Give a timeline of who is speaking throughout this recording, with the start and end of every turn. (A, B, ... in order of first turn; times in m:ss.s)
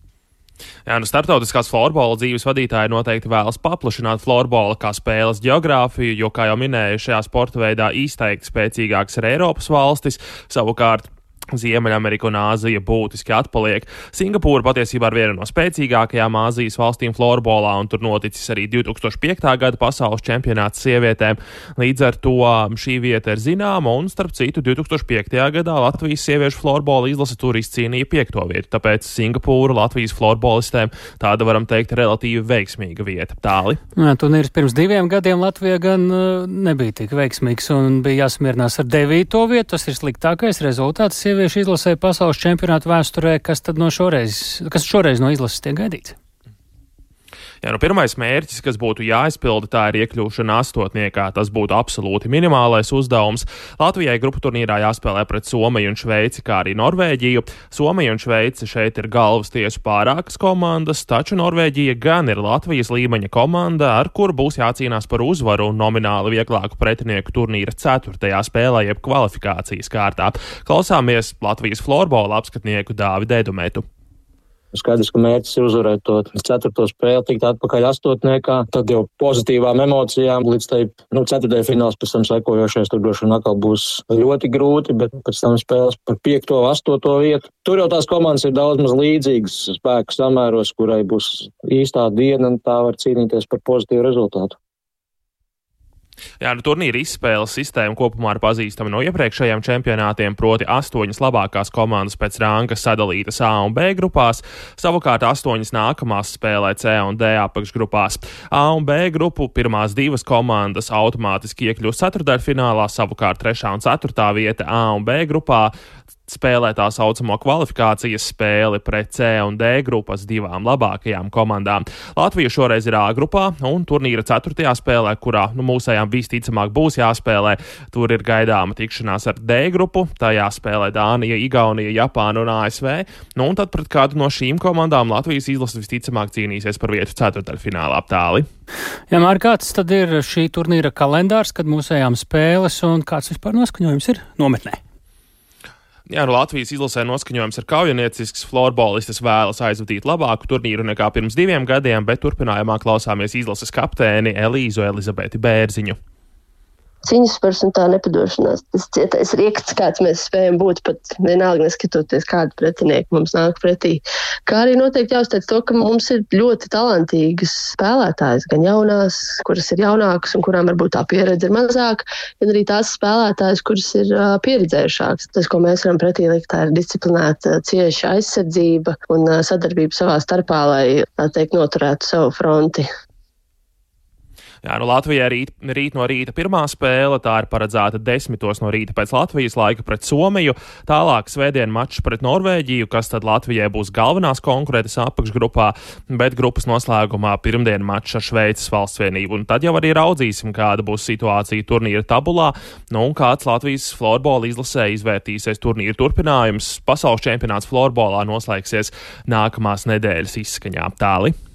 0:00.8-0:33.8 A
0:34.0-0:46.2 B
0:47.6-1:13.8 A
1:14.7-1:34.5 C
1:36.4-1:55.7 A
1:56.3-2:18.5 A
2:19.1-2:24.8 B
2:26.1-2:36.0 A
2:37.0-3:02.9 D
3:04.6-3:31.4 A